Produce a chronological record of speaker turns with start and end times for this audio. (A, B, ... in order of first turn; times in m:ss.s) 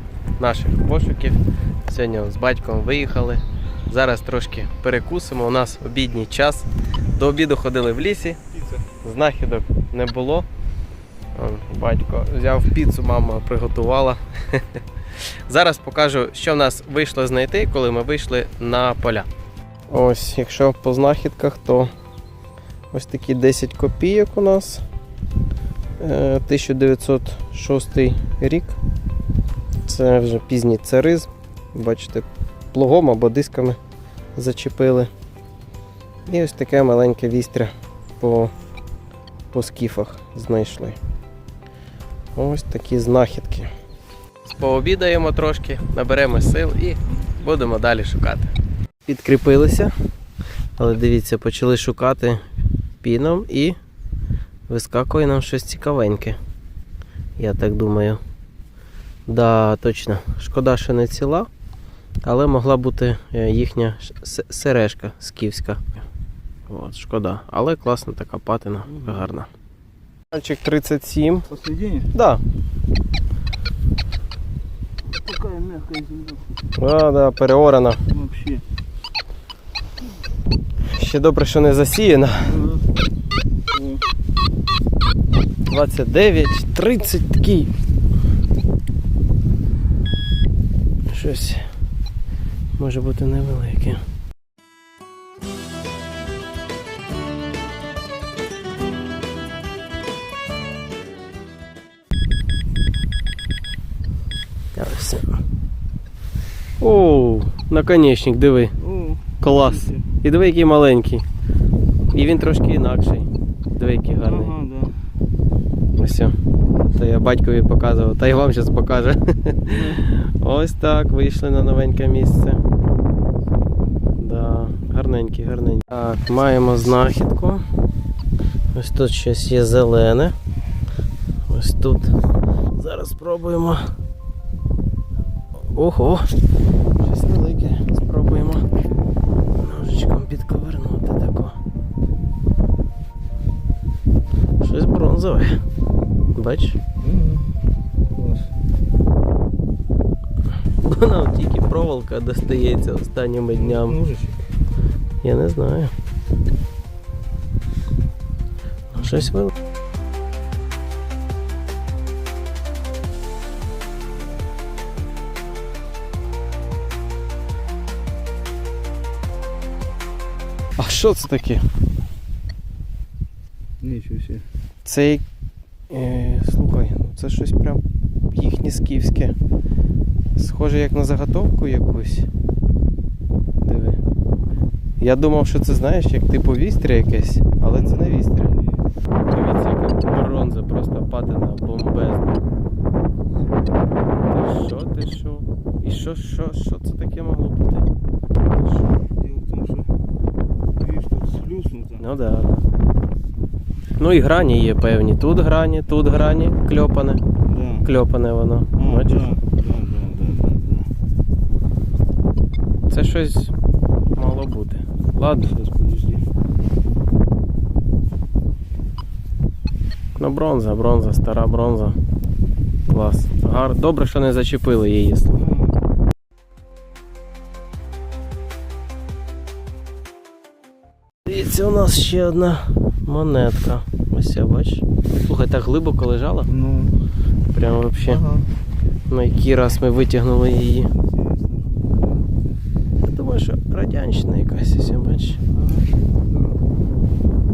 0:00.4-0:10.5 A
0:11.3-0:14.6 A
0:15.4-0:19.3 A
0:19.9-0:21.9 A
0:22.9-0:24.8 A
0:26.0-0:28.8 A
0:29.8-0:33.8 A
0:34.3-0:35.1 A
0:36.2-0:38.5 A
0:39.5-0:41.0 A
0:42.3-0:43.7 A
0:44.4-0:48.5 A
0:49.0-0:49.9 A
0:50.8-0:52.4 A
0:53.0-0:53.8 A
0:54.7-0:56.4 A
0:57.4-0:58.2 A
0:59.3-1:01.5 A
1:02.2-1:06.0 A
1:06.7-1:09.5 A
1:10.3-1:11.5 A
1:11.5-1:12.1 B
1:12.1-1:12.4 A
1:15.1-1:16.5 B
1:16.7-1:18.0 A
1:18.1-1:18.6 B
1:20.9-1:22.6 A
1:23.7-1:24.0 B
1:25.7-1:27.7 A
1:31.1-1:31.7 A
1:32.8-1:34.0 A
1:44.8-1:45.4 A
1:46.8-1:48.8 A
1:48.8-1:50.0 B
1:49.4-1:51.2 A
1:52.1-1:54.5 A
1:54.2-1:55.0 B
1:55.9-1:56.4 A
1:56.9-2:02.6 A
1:59.7-2:00.0 B
2:04.2-2:07.6 A
2:08.7-2:10.4 A
2:11.5-2:12.2 A
2:12.8-2:13.9 A
2:15.6-2:16.3 A
2:17.0-2:18.6 A
2:19.6-2:21.6 A
2:24.6-2:25.6 A
2:26.3-2:26.8 A
2:27.0-2:27.6 B
2:28.2-2:28.4 B
2:30.8-2:34.0 A
2:33.6-2:34.4 B
2:35.2-2:35.9 A
2:38.9-2:39.5 A
2:50.8-2:51.6 A
2:53.8-2:54.4 B
2:54.8-2:55.2 A
2:55.9-2:59.3 A
3:00.4-3:02.3 A
3:03.6-3:04.0 A
3:05.0-3:08.5 A
3:07.9-3:08.4 B
3:09.3-3:12.4 A
3:14.2-3:17.9 A
3:18.6-3:19.9 B
3:20.8-3:22.0 B
3:22.0-3:22.6 A
3:24.0-3:27.2 A
3:27.5-3:27.9 B
3:27.8-3:29.3 A
3:28.8-3:30.9 B
3:32.9-3:33.5 A
3:34.1-3:35.6 A
3:35.6-3:36.2 B
3:40.1-3:42.0 A
3:42.9-3:45.3 A
3:51.2-3:56.5 A
3:56.5-3:57.0 B
3:57.5-3:58.3 A
3:58.1-3:58.4 B
3:59.1-4:00.9 A
4:01.0-4:02.4 B
4:03.0-4:05.4 A
4:05.5-4:06.6 B